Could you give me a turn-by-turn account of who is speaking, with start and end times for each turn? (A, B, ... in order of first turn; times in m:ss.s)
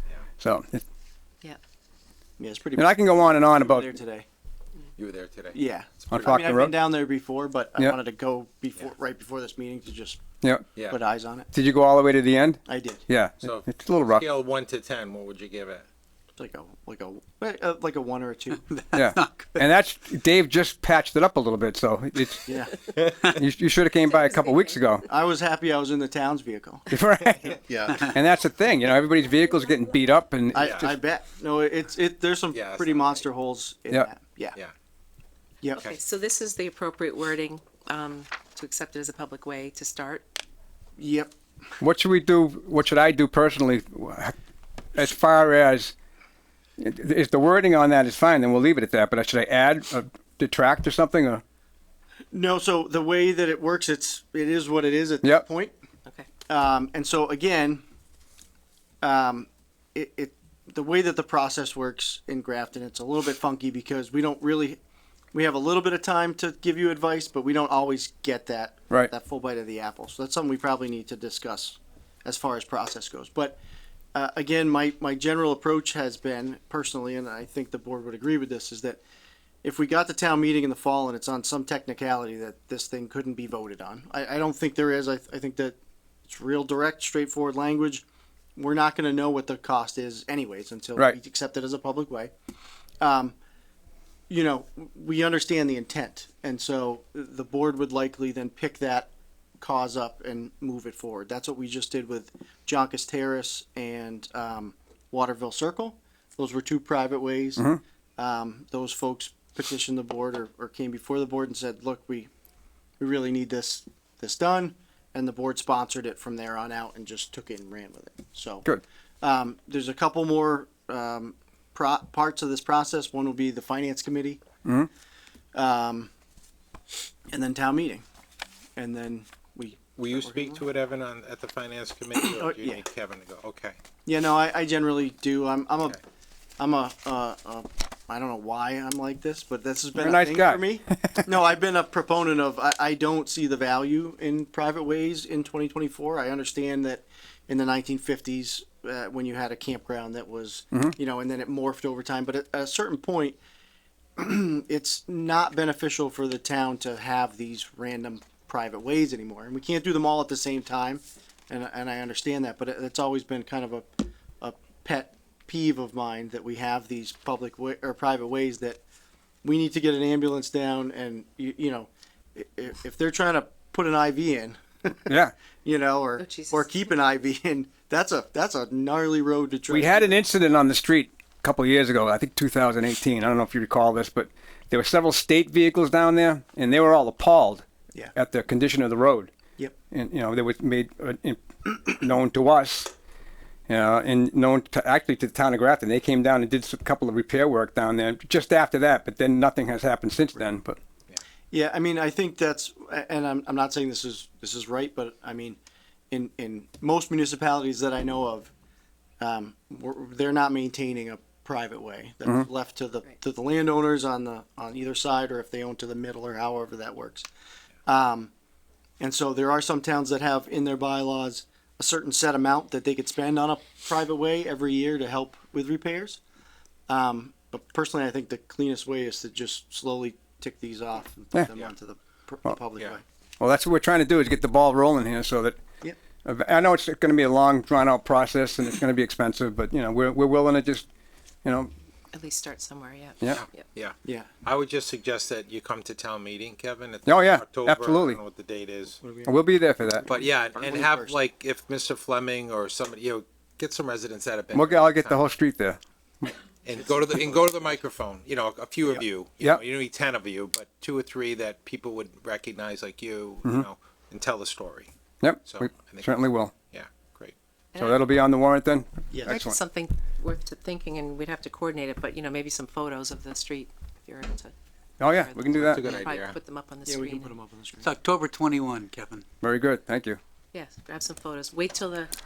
0:00.4-0:00.8 A
0:02.4-0:04.2 B
0:02.8-0:03.9 A
0:05.0-0:06.4 C
0:05.5-0:10.2 B
0:06.1-0:06.7 A
0:10.4-0:10.7 A
0:10.9-0:11.5 B
0:11.5-0:14.2 A
0:12.7-0:13.0 B
0:13.4-0:15.9 C
0:16.4-0:18.6 B
0:18.7-0:19.5 D
0:18.9-0:25.0 A
0:22.5-0:22.7 B
0:24.1-0:24.8 E
0:25.0-0:26.9 B
0:26.9-0:30.9 A
0:30.5-0:34.6 B
0:32.5-0:33.2 C
0:35.8-0:40.2 E
0:41.0-0:41.3 B
0:41.8-0:44.3 A
0:44.9-0:45.9 A
0:46.8-0:51.4 A
0:52.3-0:55.7 B
0:56.5-0:57.8 B
0:59.0-1:04.8 B
1:05.3-1:13.6 B
1:14.1-1:19.0 B
1:19.6-1:28.0 B
1:28.6-1:32.3 B
1:33.0-1:33.3 B
1:34.3-1:39.1 B
1:39.6-1:47.6 B
1:48.2-1:52.3 B
1:53.0-1:58.7 B
1:59.2-2:04.4 B
2:05.5-2:06.1 B
2:07.3-2:08.0 B
2:08.8-2:10.6 B
2:10.0-2:13.8 C
2:12.2-2:12.8 B
2:14.0-2:16.0 B
2:16.6-2:33.4 B
2:20.0-2:21.3 A
2:34.2-2:48.8 B
2:49.4-2:55.1 B
2:55.1-2:55.3 A
2:55.6-3:00.2 B
2:56.2-2:56.7 E
2:59.7-3:09.3 A
3:09.9-3:12.9 A
3:13.7-3:20.8 A
3:21.5-3:25.6 B
3:26.1-3:28.5 B
3:29.2-3:37.3 B
3:37.8-3:38.3 B
3:39.0-3:46.2 B
3:46.9-3:53.0 B
3:53.4-3:55.6 A
3:56.2-4:00.8 A
4:01.4-4:01.7 A
4:02.1-4:03.7 E
4:03.3-4:09.0 C
4:04.0-4:04.3 B
4:07.1-4:08.2 A
4:09.0-4:11.2 B
4:09.2-4:10.1 A
4:10.1-4:15.2 C
4:14.5-4:16.3 A
4:16.6-4:24.9 C
4:25.2-4:26.5 A
4:25.4-4:27.3 C
4:27.7-4:28.0 E
4:27.8-4:29.6 A
4:29.1-4:29.4 B
4:29.3-4:37.3 E
4:35.0-4:35.9 A
4:35.5-4:36.4 C
4:36.8-4:37.9 B
4:37.8-4:39.2 D
4:39.4-4:40.2 A
4:40.5-4:42.1 E